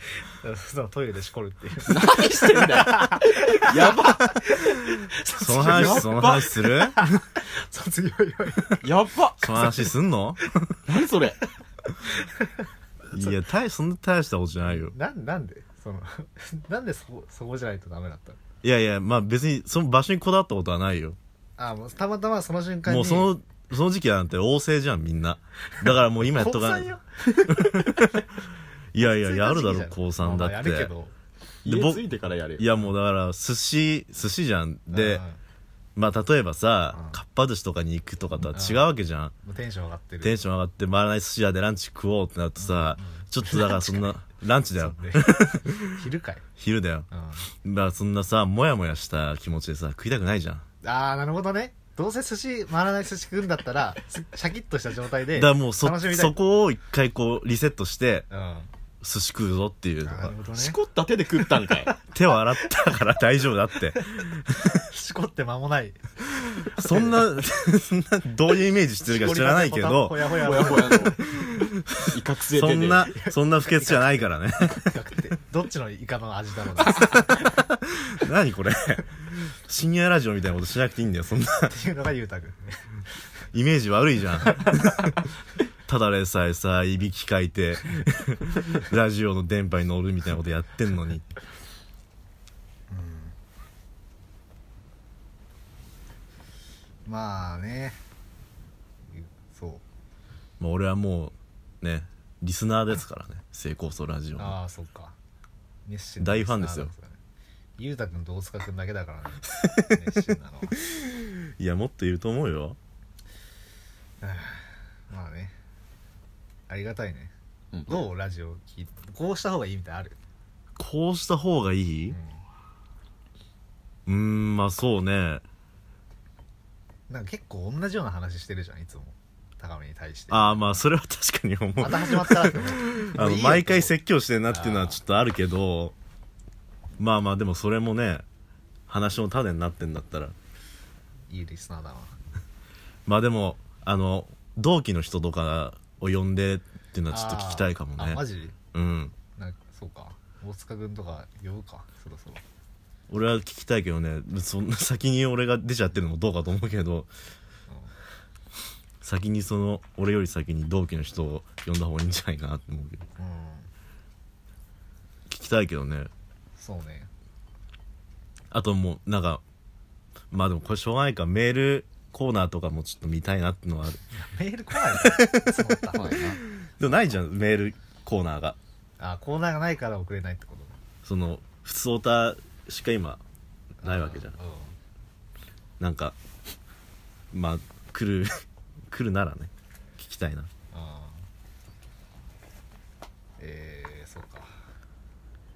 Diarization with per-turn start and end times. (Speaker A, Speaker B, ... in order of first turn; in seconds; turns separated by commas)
Speaker A: 0.2-8.8, Speaker B: 1.8-4.5, Speaker C: 5.4-7.2, Speaker B: 5.6-6.5, Speaker B: 8.8-9.7, Speaker C: 9.4-10.8, Speaker A: 9.6-9.9, Speaker B: 10.9-11.4, Speaker A: 12.1-13.4, Speaker C: 13.1-14.9, Speaker A: 14.7-18.4, Speaker C: 18.6-21.2, Speaker A: 21.6-23.3, Speaker C: 22.9-28.3, Speaker A: 25.8-28.1, Speaker C: 28.9-30.9, Speaker A: 29.0-31.1, Speaker B: 31.6-32.7, Speaker C: 31.7-35.2, Speaker A: 34.9-35.4, Speaker C: 36.0-39.3, Speaker A: 38.5-38.9, Speaker A: 39.4-40.4, Speaker C: 40.2-46.0, Speaker A: 42.6-44.1, Speaker A: 44.7-46.5, Speaker C: 46.6-47.1, Speaker A: 47.1-47.4, Speaker C: 47.6-50.6, Speaker A: 50.8-56.4, Speaker C: 55.4-58.3, Speaker A: 58.3-58.7, Speaker C: 59.0-60.4, Speaker A: 60.0-60.8, Speaker B: 60.5-62.0, Speaker C: 61.9-64.9, Speaker A: 64.0-66.0, Speaker C: 66.6-75.0, Speaker A: 66.8-67.2, Speaker A: 69.0-71.2, Speaker B: 70.4-71.3, Speaker B: 72.0-73.1, Speaker A: 73.2-77.6, Speaker C: 76.8-81.8, Speaker A: 81.7-82.9, Speaker C: 83.5-85.3, Speaker A: 84.5-85.1, Speaker C: 85.9-91.3, Speaker A: 92.9-93.3, Speaker A: 97.0-98.0, Speaker A: 99.1-99.8, Speaker C: 100.6-104.6, Speaker A: 104.4-105.2, Speaker A: 105.8-107.2, Speaker C: 106.2-106.9, Speaker A: 107.8-110.8, Speaker C: 110.9-112.8, Speaker A: 114.2-115.6, Speaker A: 116.7-117.3, Speaker B: 117.7-118.1, Speaker A: 117.9-120.2, Speaker C: 120.8-122.2, Speaker A: 122.1-122.4, Speaker C: 124.1-125.4, Speaker A: 127.1-130.8, Speaker C: 130.3-135.9, Speaker A: 131.8-133.9, Speaker A: 134.5-135.0, Speaker C: 137.0-138.2, Speaker C: 138.9-140.3, Speaker A: 141.3-142.2, Speaker C: 143.1-149.2, Speaker A: 147.1-148.6, Speaker A: 149.3-152.4, Speaker C: 153.1-157.1, Speaker C: 159.0-163.1, Speaker A: 163.2-163.7, Speaker C: 165.3-166.1, Speaker A: 166.6-167.1, Speaker C: 168.5-169.4, Speaker C: 170.3-174.0, Speaker A: 174.2-176.2, Speaker C: 175.0-175.9, Speaker B: 175.9-176.4, Speaker C: 176.6-178.6, Speaker A: 179.0-180.8, Speaker C: 181.0-183.2, Speaker C: 183.8-184.4, Speaker A: 183.8-184.8, Speaker C: 185.8-186.2, Speaker C: 187.3-190.5, Speaker A: 190.7-191.3, Speaker A: 193.4-194.5